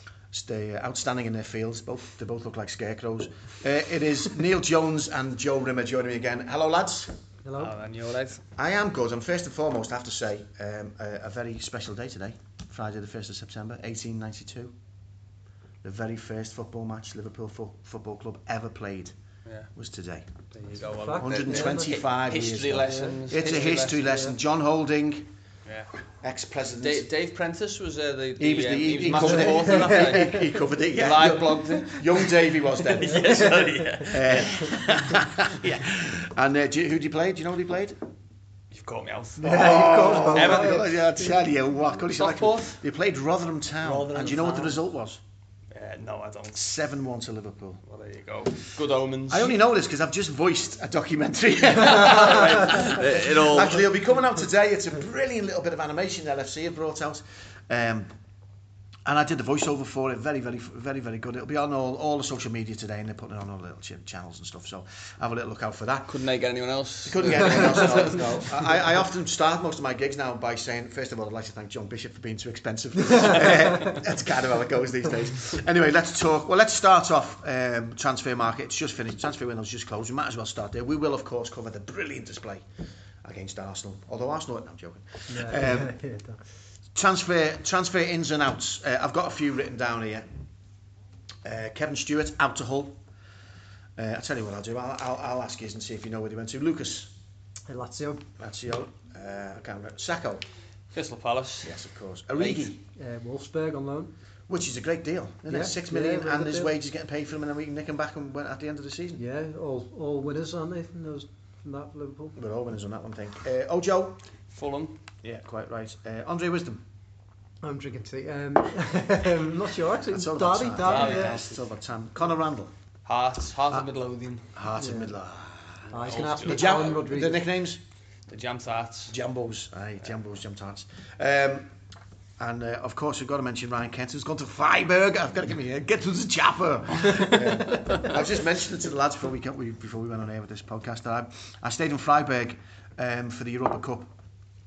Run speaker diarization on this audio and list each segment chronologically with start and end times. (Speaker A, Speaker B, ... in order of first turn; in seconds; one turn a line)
Speaker A: 0.3-7.2
Speaker B: 7.4-7.7
Speaker C: 7.6-8.4
Speaker A: 8.6-14.7
Speaker A: 15.8-19.1
Speaker A: 19.7-20.3
Speaker C: 20.6-24.3
Speaker B: 20.7-22.0
Speaker A: 21.2-25.3
Speaker B: 22.8-23.2
Speaker B: 24.1-24.3
Speaker A: 26.2-27.1
Speaker C: 26.8-35.7
Speaker A: 28.4-38.0
Speaker B: 29.2-30.4
Speaker B: 33.2-33.8
Speaker C: 38.7-40.9
Speaker B: 39.4-40.8
Speaker A: 39.4-45.2
Speaker C: 42.1-42.8
Speaker C: 43.8-44.8
Speaker C: 45.7-46.6
Speaker A: 46.5-47.8
Speaker C: 47.9-49.6
Speaker A: 49.3-58.1
Speaker C: 51.8-53.8
Speaker A: 59.0-66.2
Speaker C: 66.1-68.7
Speaker A: 67.0-82.7
Speaker A: 83.2-85.9
Speaker B: 85.3-86.4
Speaker A: 86.9-90.2
Speaker A: 91.4-93.0
Speaker A: 94.0-97.1
Speaker B: 97.7-98.2
Speaker A: 98.4-100.4
Speaker C: 100.9-101.8
Speaker A: 101.6-102.8
Speaker C: 102.3-102.7
Speaker B: 103.0-104.1
Speaker A: 104.5-109.2
Speaker B: 105.5-106.8
Speaker B: 109.2-112.4
Speaker A: 112.3-114.2
Speaker C: 114.5-115.0
Speaker A: 115.2-116.8
Speaker B: 117.6-121.4
Speaker A: 120.1-122.7
Speaker C: 120.8-121.5
Speaker C: 123.0-124.5
Speaker A: 124.5-127.8
Speaker B: 124.8-125.1
Speaker C: 125.9-126.6
Speaker B: 125.9-127.4
Speaker C: 128.3-129.2
Speaker A: 129.1-131.7
Speaker A: 132.4-144.1